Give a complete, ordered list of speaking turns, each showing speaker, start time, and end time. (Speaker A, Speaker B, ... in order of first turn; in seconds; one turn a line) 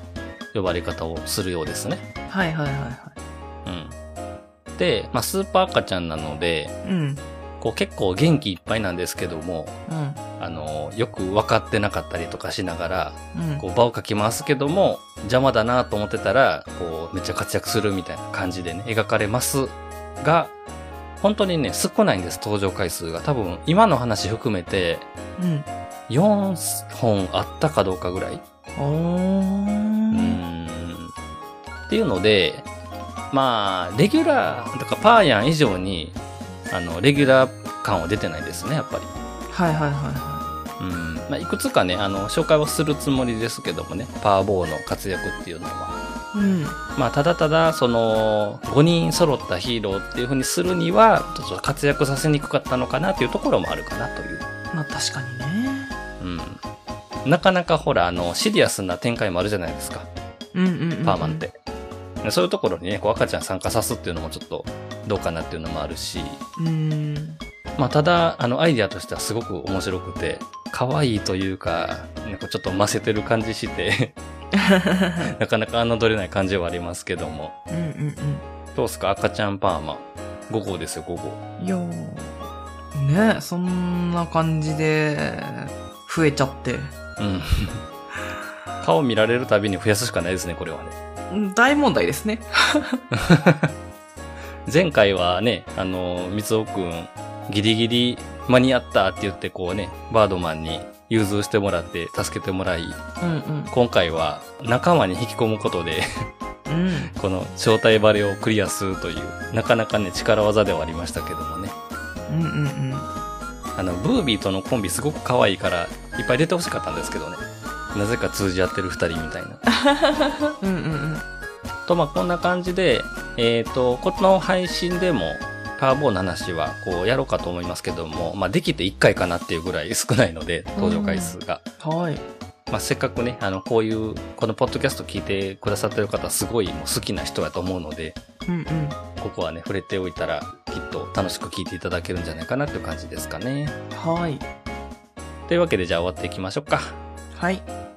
Speaker A: 0.5-2.0
Speaker B: 2.3-3.2
Speaker A: 3.6-4.0
Speaker A: 4.8-6.7
Speaker B: 6.8-7.2
Speaker A: 7.6-9.8
Speaker B: 9.9-10.2
Speaker A: 10.4-20.5
Speaker B: 13.3-13.6
Speaker A: 21.2-25.1
Speaker B: 25.4-25.7
Speaker A: 26.1-28.4
Speaker B: 28.8-30.4
Speaker A: 30.1-31.1
Speaker A: 31.9-32.7
Speaker A: 33.3-36.2
Speaker A: 36.7-39.1
Speaker B: 39.5-40.5
Speaker A: 40.8-46.0
Speaker B: 46.3-46.8
Speaker A: 46.9-54.5
Speaker B: 54.7-56.0
Speaker A: 56.2-56.6
Speaker A: 57.2-60.1
Speaker B: 60.5-61.4
Speaker A: 61.0-61.5
Speaker A: 62.2-66.4
Speaker B: 66.6-67.4
Speaker A: 67.8-74.1
Speaker B: 74.5-75.3
Speaker A: 75.2-77.5
Speaker B: 77.7-78.5
Speaker A: 78.7-81.4
Speaker B: 81.6-86.9
Speaker A: 87.2-87.8
Speaker A: 88.8-91.0
Speaker B: 91.3-93.0
Speaker A: 93.1-93.7
Speaker A: 94.7-103.0
Speaker B: 103.2-103.7
Speaker A: 103.7-106.0
Speaker B: 106.7-107.1
Speaker A: 107.1-111.8
Speaker B: 112.3-113.1
Speaker A: 113.8-117.4
Speaker A: 117.9-119.6
Speaker B: 119.9-121.2
Speaker A: 121.9-131.6
Speaker B: 130.8-132.2
Speaker A: 132.7-138.2
Speaker B: 138.4-139.0
Speaker A: 139.2-143.8
Speaker B: 143.9-144.5
Speaker A: 145.5-147.0
Speaker B: 147.3-147.7